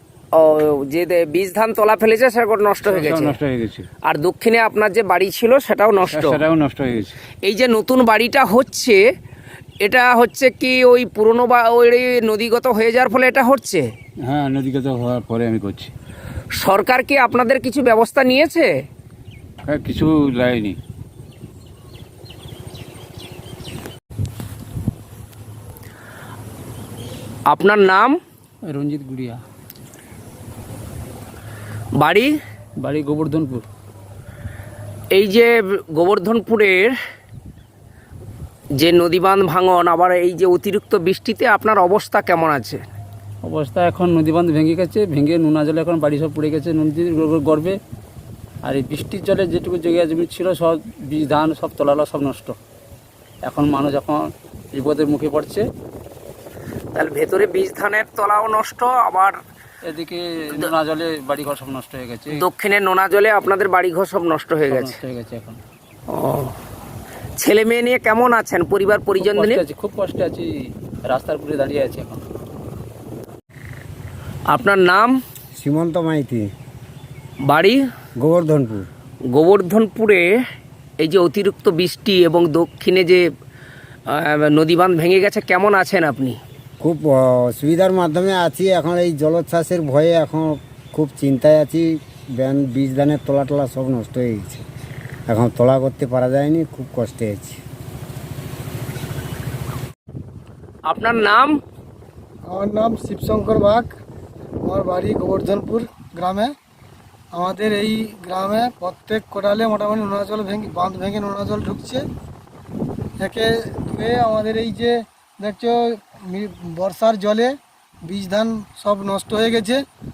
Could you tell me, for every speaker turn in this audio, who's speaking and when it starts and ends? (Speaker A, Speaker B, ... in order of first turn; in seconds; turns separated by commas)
Speaker A: 0.3-3.4, Speaker B: 2.8-3.9, Speaker A: 4.1-6.4, Speaker B: 6.0-7.2, Speaker A: 7.4-9.0, Speaker A: 9.8-13.9, Speaker B: 14.2-15.9, Speaker A: 16.6-18.7, Speaker B: 19.7-20.8, Speaker A: 27.5-28.2, Speaker C: 28.6-29.4, Speaker A: 32.0-32.3, Speaker C: 32.8-33.7, Speaker A: 35.1-37.0, Speaker A: 38.8-42.8, Speaker C: 43.4-47.8, Speaker C: 48.6-52.6, Speaker C: 53.4-55.7, Speaker A: 57.0-59.4, Speaker C: 59.9-62.5, Speaker A: 62.4-65.0, Speaker C: 64.7-65.6, Speaker A: 66.1-66.5, Speaker A: 67.4-69.6, Speaker C: 69.2-72.2, Speaker A: 74.5-75.2, Speaker D: 75.6-76.5, Speaker A: 77.5-77.8, Speaker D: 78.2-78.9, Speaker A: 79.3-80.3, Speaker A: 81.0-83.2, Speaker A: 84.1-86.4, Speaker D: 86.8-94.6, Speaker D: 95.3-97.6, Speaker A: 100.9-101.6, Speaker E: 102.5-104.0, Speaker E: 104.6-106.5, Speaker E: 107.3-112.1, Speaker E: 113.2-119.8